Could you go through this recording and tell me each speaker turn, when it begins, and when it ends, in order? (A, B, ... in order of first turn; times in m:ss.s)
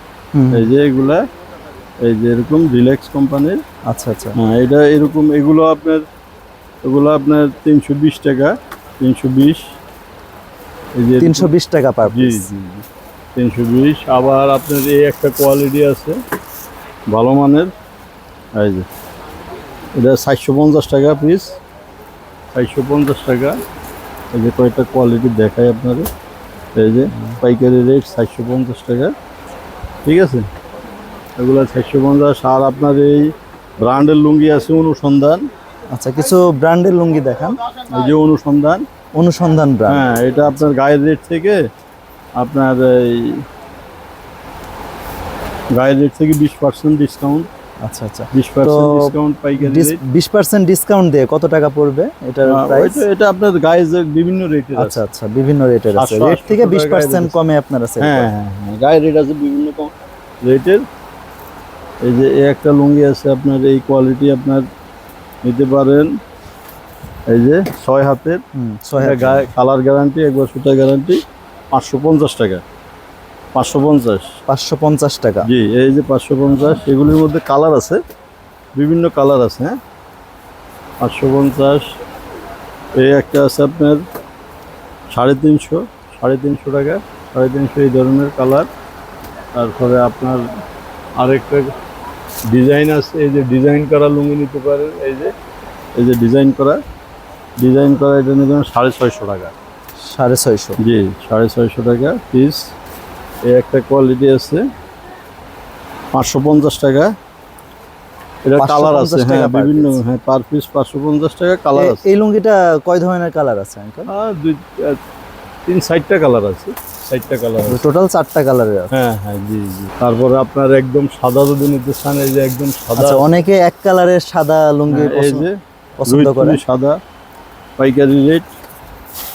0:00.4-0:00.7 A
0:00.5-0:01.2 B
0:02.0-0:03.6 B
0:03.9-0:04.4 A
0:04.4-0:06.0 B
0:06.8-0:09.7 B
0:11.0-0:11.5 B
0:11.2-0:12.5 A
0:12.1-0:12.9 B
0:13.4-0:16.2 B
0:17.1-0:17.7 B
0:18.6-0:18.9 B
0:20.0-0:21.6 B
0:22.5-0:23.6 B
0:24.3-0:26.1 B
0:26.8-0:29.1 B
0:30.0-0:30.5 B
0:31.4-0:35.5 B
0:35.9-0:37.6 A
0:37.9-0:38.8 B
0:39.2-0:40.6 A
0:39.9-0:41.6 B
0:42.4-0:43.4 B
0:45.7-0:47.5 B
0:47.8-0:53.0 A
0:48.3-0:50.0 B
0:52.5-0:55.0 B
0:54.8-0:58.3 A
0:56.0-0:57.4 B
0:58.0-1:00.8 B
1:02.0-1:04.7 B
1:05.4-1:06.1 B
1:07.3-1:08.4 B
1:08.6-1:09.5 A
1:09.0-1:11.2 B
1:11.7-1:12.6 B
1:13.6-1:14.3 B
1:14.5-1:15.5 A
1:15.4-1:18.0 B
1:18.8-1:19.8 B
1:21.0-1:21.9 B
1:23.0-1:24.0 B
1:25.1-1:28.7 B
1:29.6-1:30.4 B
1:31.2-1:31.7 B
1:32.5-1:35.3 B
1:36.0-1:36.8 B
1:37.6-1:39.5 B
1:40.0-1:40.8 A
1:40.8-1:42.7 B
1:43.5-1:44.6 B
1:46.1-1:47.1 B
1:48.5-1:52.0 B
1:48.6-1:50.0 A
1:51.8-1:54.1 A
1:54.1-1:55.0 B
1:55.7-1:57.8 B
1:57.7-1:58.9 A
1:58.9-2:03.3 B
2:03.0-2:05.5 A
2:04.9-2:07.0 B
2:06.0-2:06.6 A
2:07.8-2:08.5 B